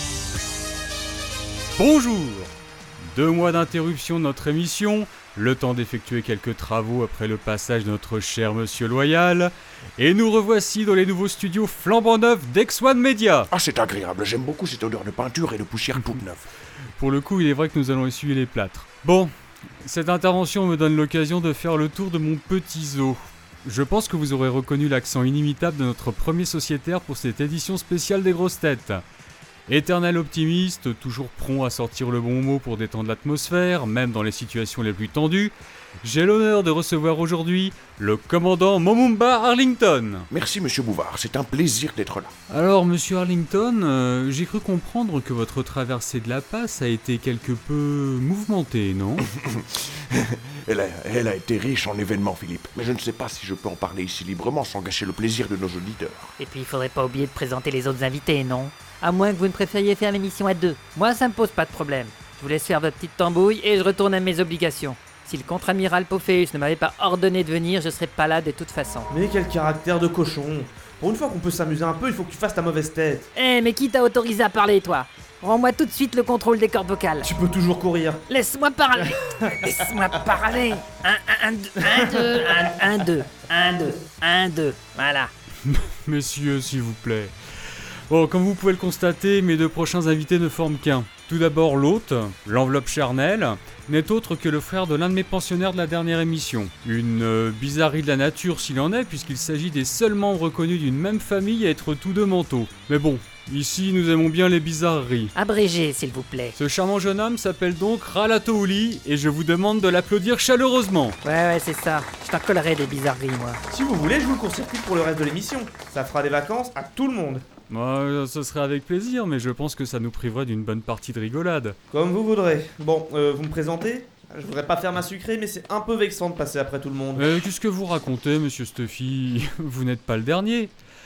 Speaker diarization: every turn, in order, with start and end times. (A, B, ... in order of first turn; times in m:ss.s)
0:01.8-0:13.5 A
0:13.5-0:16.5 B
0:17.0-0:29.0 A
0:29.7-0:40.3 A
0:40.3-0:42.3 B
0:42.5-0:49.2 A
0:49.3-0:56.4 B
0:56.4-1:09.1 C
1:09.1-1:13.3 D
1:13.3-1:17.3 C
1:17.2-1:18.2 D
1:18.3-1:25.3 C
1:25.6-1:27.3 A
1:28.1-1:45.3 A
1:45.3-1:46.5 C
1:46.6-1:51.2 A
1:51.2-1:53.6 C
1:53.7-1:57.4 D
1:57.7-2:01.8 A
2:01.9-2:07.2 D
2:07.2-2:10.7 A